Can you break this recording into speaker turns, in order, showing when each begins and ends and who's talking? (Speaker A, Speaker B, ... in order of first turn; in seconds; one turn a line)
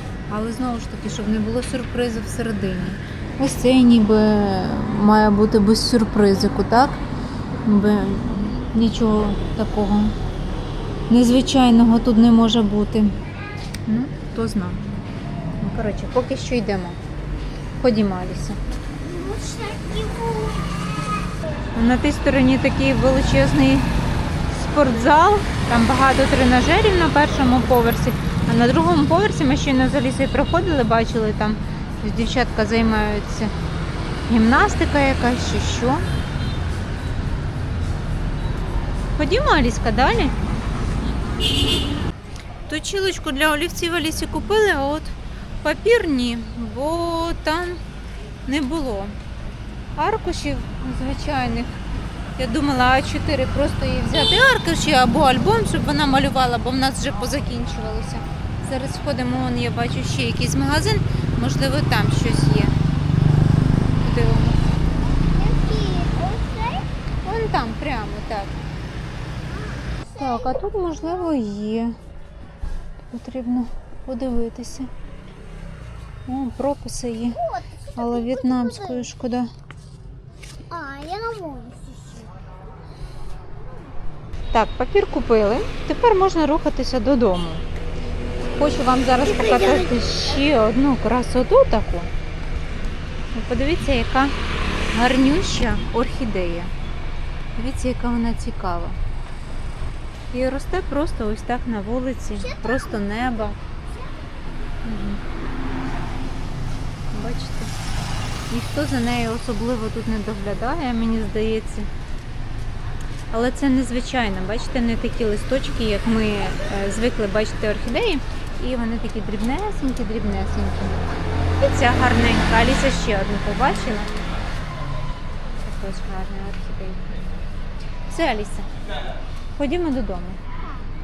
Speaker A: 0.3-7.0
Speaker A: 7.6-10.2
Speaker A: 11.1-13.2
Speaker A: 13.9-15.1
Speaker A: 15.6-17.0
Speaker A: 17.8-18.6
Speaker B: 19.0-20.9
Speaker A: 21.8-23.9
Speaker A: 24.5-33.5
Speaker A: 34.3-36.1
Speaker A: 39.2-40.4
Speaker A: 42.7-47.8
Speaker A: 48.5-49.2
Speaker A: 50.0-51.7
Speaker A: 52.4-62.8
Speaker A: 64.0-64.6
Speaker B: 65.2-66.9
Speaker A: 67.2-68.5
Speaker B: 69.5-71.3
Speaker A: 70.2-72.0
Speaker A: 73.1-74.9
Speaker A: 76.3-77.4
Speaker B: 77.3-79.1
Speaker A: 78.0-79.5
Speaker B: 80.7-82.5
Speaker A: 84.5-87.7
Speaker A: 88.5-92.1
Speaker B: 89.2-90.0
Speaker A: 93.3-94.3
Speaker A: 94.9-96.7
Speaker A: 97.6-99.0
Speaker A: 100.3-103.6
Speaker B: 102.4-104.1
Speaker A: 104.8-105.2
Speaker A: 107.1-107.7
Speaker A: 108.5-111.9
Speaker A: 113.3-124.1
Speaker A: 125.6-127.2
Speaker A: 128.1-128.7
Speaker A: 129.6-130.4